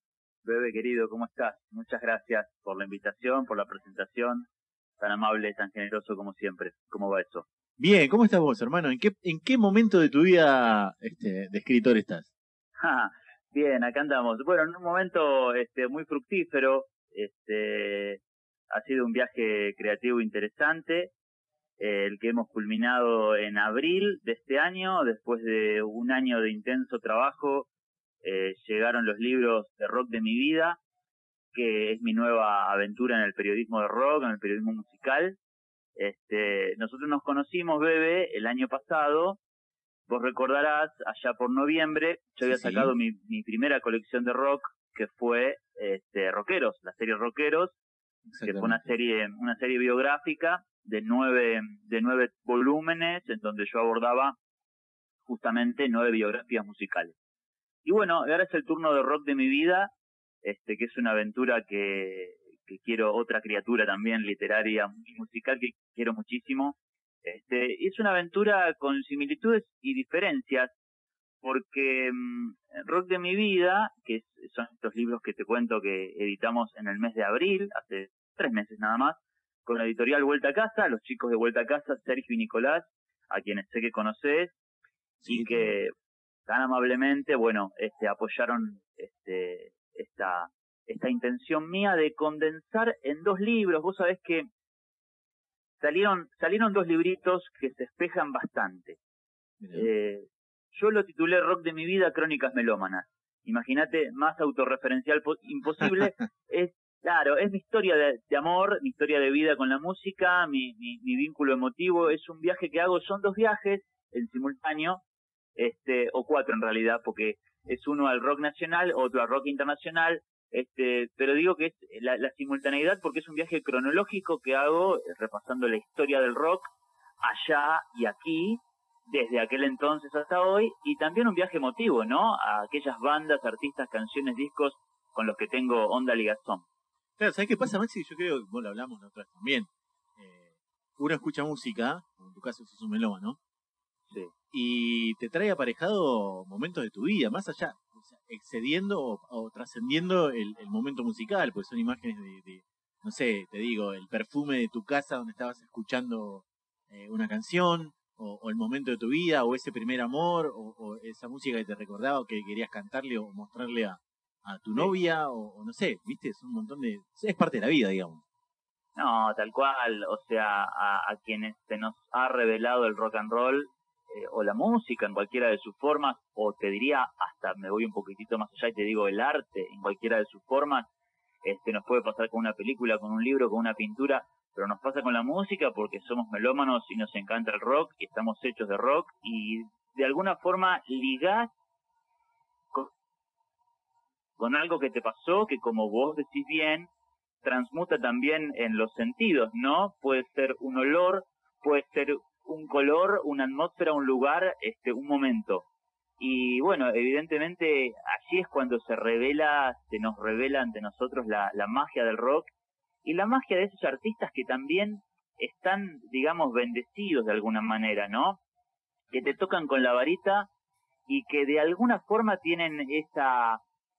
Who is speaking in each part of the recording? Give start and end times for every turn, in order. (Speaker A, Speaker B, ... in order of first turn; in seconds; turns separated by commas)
Speaker A: 0.5-4.5, Speaker A: 5.0-7.5, Speaker B: 7.8-12.3, Speaker A: 12.8-21.1, Speaker A: 21.8-27.7, Speaker A: 28.2-30.8, Speaker A: 31.5-35.4, Speaker A: 36.0-39.4, Speaker A: 40.1-47.8, Speaker B: 42.4-42.9, Speaker B: 48.3-48.9, Speaker A: 48.4-54.4, Speaker A: 55.3-57.1, Speaker A: 57.9-59.9, Speaker A: 60.4-70.7, Speaker A: 71.4-84.5, Speaker B: 85.2-85.8, Speaker A: 85.3-85.9, Speaker A: 86.5-94.4, Speaker A: 95.8-99.0, Speaker B: 99.6-99.9, Speaker A: 99.7-115.0, Speaker A: 115.6-126.7, Speaker A: 127.2-136.6, Speaker B: 137.2-143.4, Speaker B: 144.5-168.2, Speaker A: 169.0-180.9, Speaker A: 181.4-191.5, Speaker A: 194.4-196.9, Speaker A: 197.4-205.7, Speaker A: 206.2-212.5, Speaker A: 213.0-218.4, Speaker A: 219.1-220.5, Speaker A: 221.1-223.6